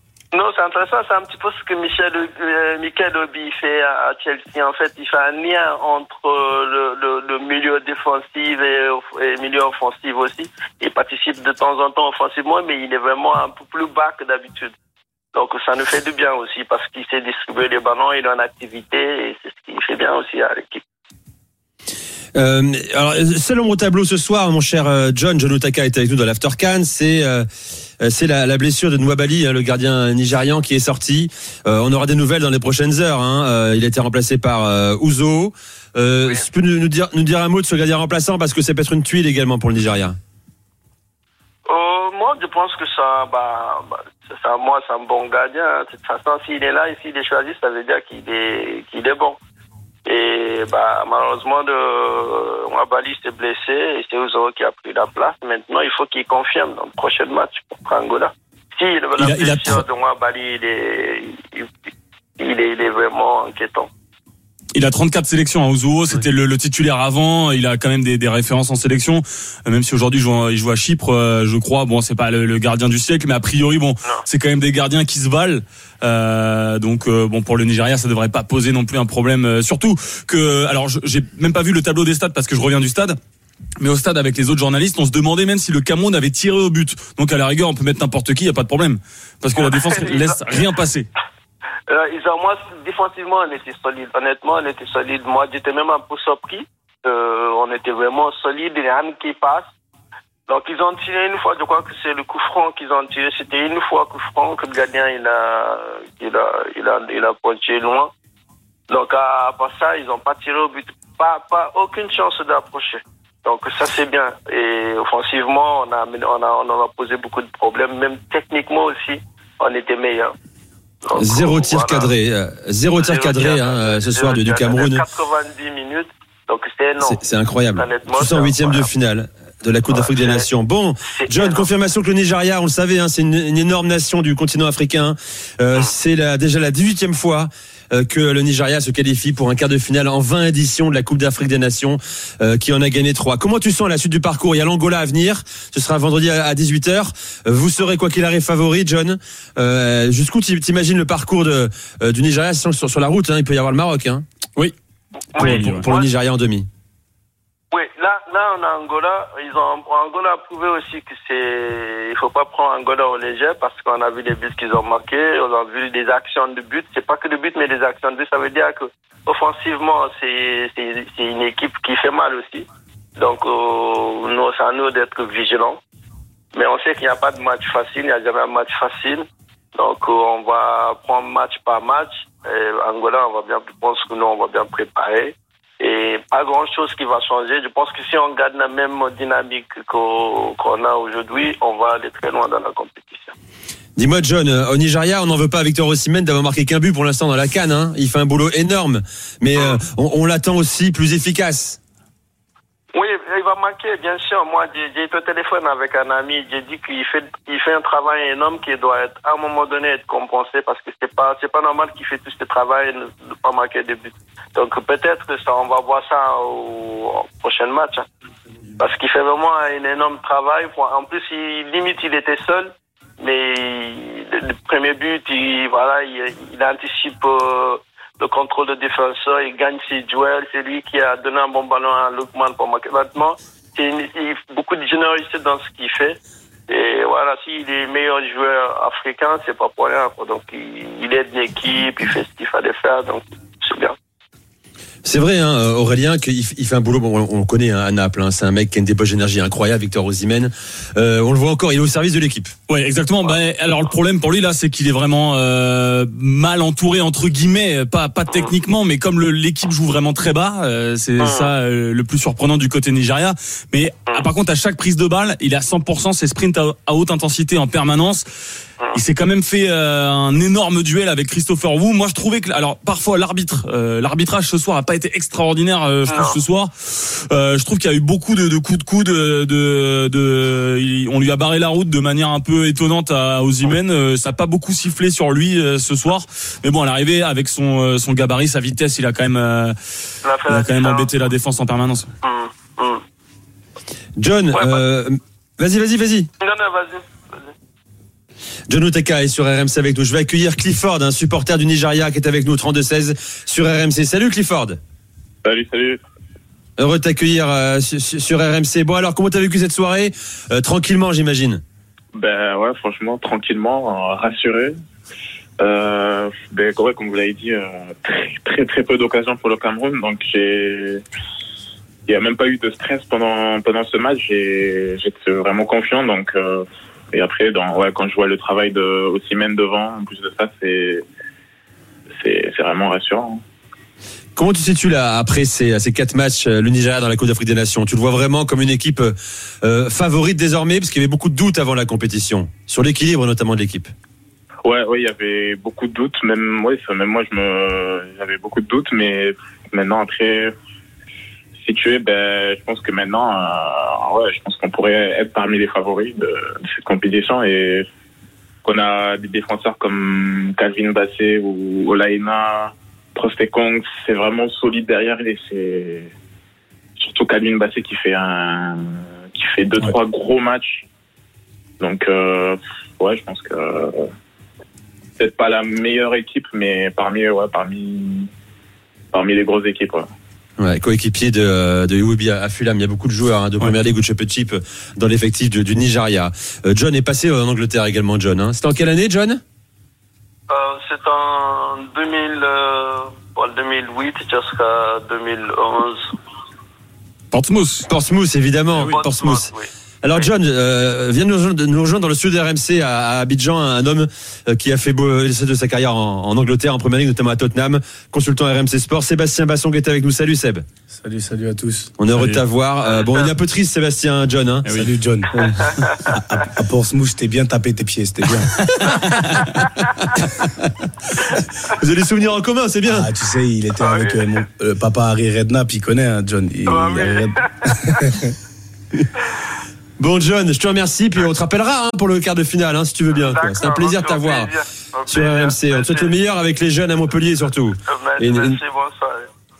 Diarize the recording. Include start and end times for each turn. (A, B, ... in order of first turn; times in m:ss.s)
0:00.3-0:14.7 A
0:15.3-0:20.8 A
0:22.3-0:27.5 B
0:28.0-0:40.2 B
0:41.7-0:49.4 A
0:50.0-1:03.9 A
0:59.2-0:59.8 C
1:04.8-1:23.2 C
1:23.8-1:31.1 C
1:29.5-1:30.6 A
1:31.9-1:39.7 A
1:40.5-1:48.1 A
1:48.9-2:00.3 A
2:01.0-2:02.1 A
2:01.1-2:05.0 B
2:03.0-2:07.2 A
2:07.0-2:34.2 B
2:07.7-2:08.9 A
2:09.9-2:10.5 A
2:11.1-2:11.7 A
2:35.3-2:36.1 A
2:35.3-2:36.7 B
2:35.4-2:35.8 C
2:37.7-2:55.8 A
2:56.5-3:13.3 A
3:14.0-3:21.8 B
3:22.9-3:38.0 A
3:38.8-4:03.9 A
4:05.0-4:12.5 B
4:12.7-4:28.2 C
4:21.2-4:21.5 A
4:28.9-4:49.7 C
4:36.1-4:36.4 A
4:50.2-4:51.1 A
4:50.5-4:52.1 C
4:52.2-4:53.0 A
4:54.2-4:56.3 B
4:54.5-4:54.8 A
4:56.4-4:57.5 A
4:58.7-5:04.8 B
5:05.4-5:06.0 D
5:06.8-5:11.6 B
5:12.1-5:14.7 D
5:15.6-5:21.0 D
5:22.1-5:31.0 D
5:32.2-5:33.4 D
5:34.4-5:43.9 B
5:44.6-5:50.5 D
5:51.6-5:57.8 D
5:58.6-6:06.1 D
6:07.0-6:08.8 D
6:09.3-6:10.9 D
6:11.8-6:14.0 D
6:15.2-6:18.3 D
6:19.1-6:20.1 D
6:20.6-6:29.4 B
6:30.5-6:36.0 A
6:37.3-6:37.9 C
6:37.9-6:39.5 B
6:38.8-6:40.3 A
6:40.0-6:50.6 B
6:50.9-6:51.9 E
6:52.0-6:54.7 B
6:52.1-6:52.4 C
6:52.9-6:53.3 A
6:54.6-6:55.0 C
6:54.7-6:58.5 E
6:58.3-6:59.8 C
7:01.8-7:03.1 B
7:02.9-7:08.3 E
7:03.7-7:04.4 A
7:06.6-7:07.9 A
7:10.0-7:14.5 B
7:13.1-7:16.1 A
7:15.1-7:18.6 B
7:17.9-7:19.3 A